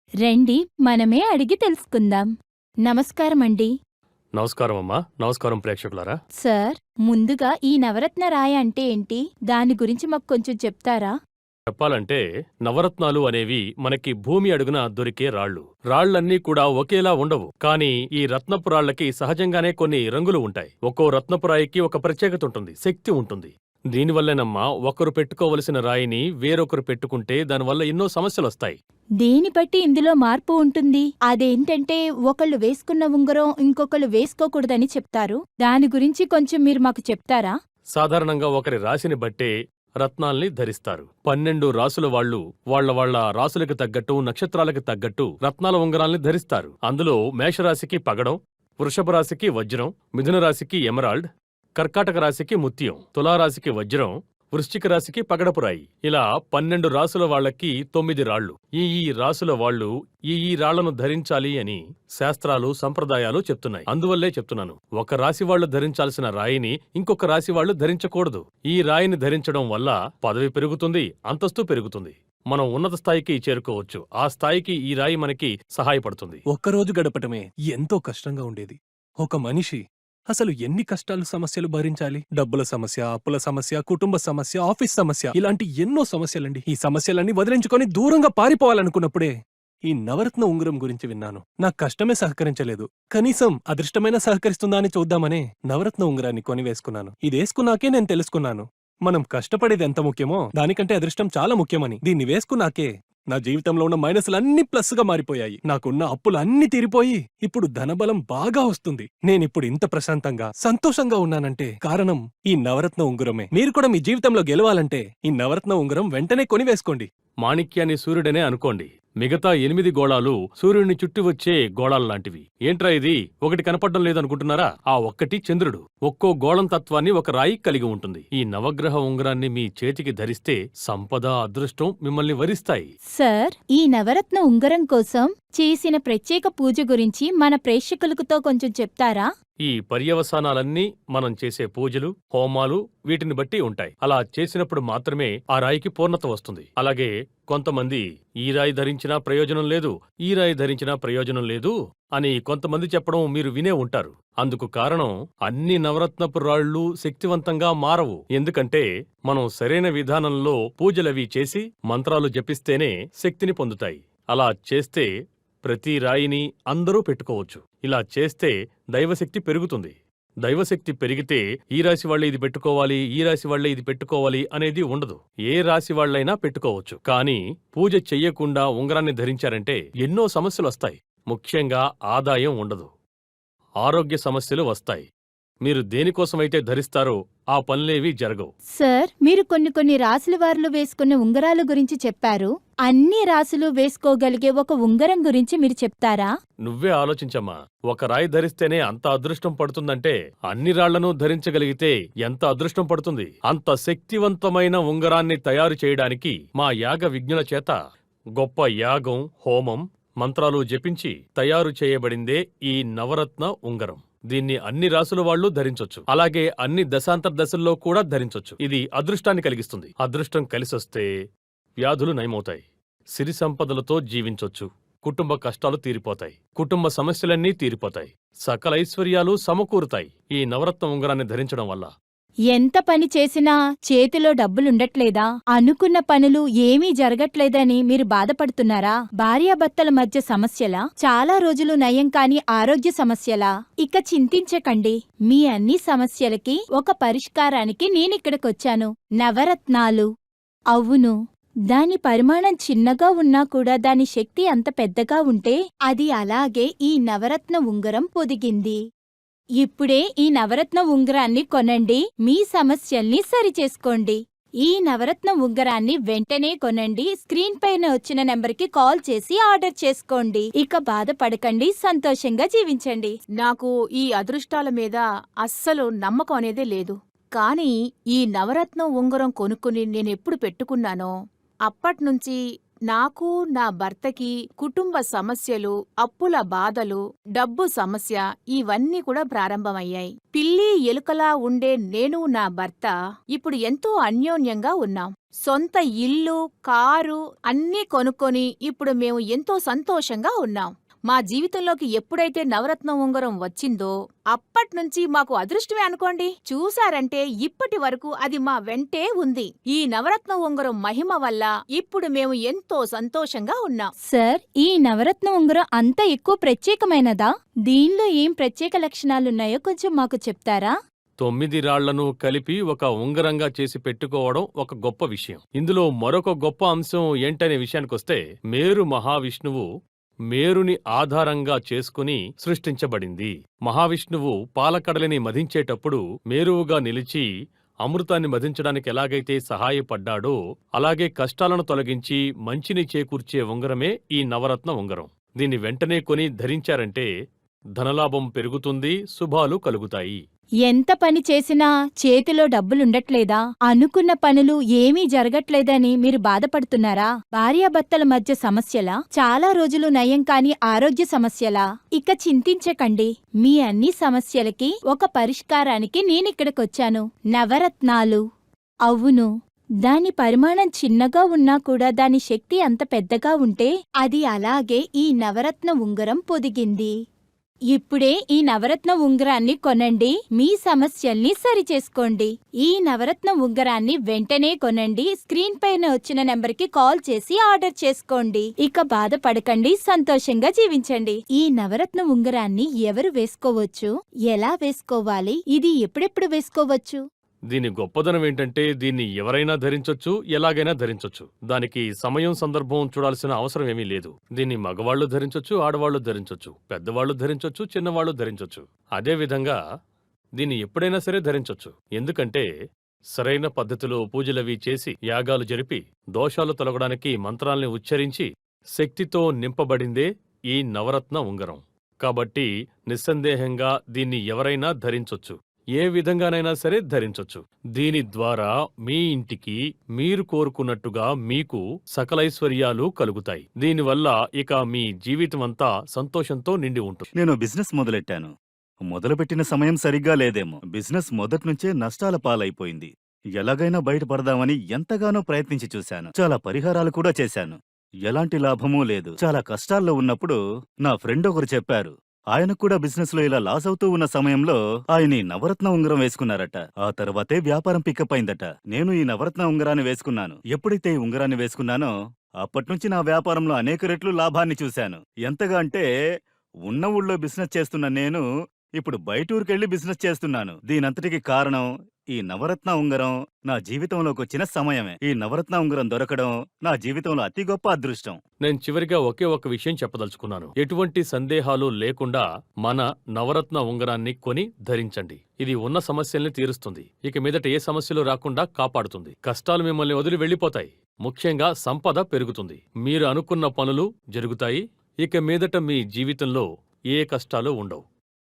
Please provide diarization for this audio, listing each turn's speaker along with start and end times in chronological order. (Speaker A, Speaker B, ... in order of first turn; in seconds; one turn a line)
Speaker A: 0.2-2.3
Speaker A: 2.9-3.7
Speaker B: 4.4-6.2
Speaker A: 6.4-11.1
Speaker B: 11.7-28.8
Speaker A: 29.2-37.5
Speaker B: 38.0-51.2
Speaker B: 51.8-76.4
Speaker C: 76.5-117.1
Speaker B: 117.4-132.9
Speaker A: 133.2-139.3
Speaker B: 139.7-165.1
Speaker B: 165.6-182.9
Speaker B: 183.8-185.1
Speaker B: 185.6-188.5
Speaker A: 188.8-196.3
Speaker B: 196.7-207.8
Speaker B: 208.4-221.1
Speaker B: 221.8-222.6
Speaker B: 223.2-231.9
Speaker A: 232.5-250.1
Speaker A: 250.7-251.1
Speaker A: 251.7-258.8
Speaker A: 259.6-273.1
Speaker D: 273.4-281.1
Speaker D: 281.7-313.9
Speaker A: 314.1-320.7
Speaker B: 321.2-329.7
Speaker B: 330.3-337.3
Speaker B: 337.9-347.1
Speaker B: 347.8-350.2
Speaker A: 350.6-368.2
Speaker A: 368.9-369.3
Speaker A: 369.9-376.9
Speaker A: 377.7-397.0
Speaker B: 397.5-409.6
Speaker B: 410.4-412.4
Speaker B: 413.1-437.1
Speaker E: 437.1-438.3
Speaker E: 438.9-461.9
Speaker E: 462.4-465.8
Speaker E: 466.7-468.2
Speaker E: 468.8-478.2
Speaker B: 478.4-497.8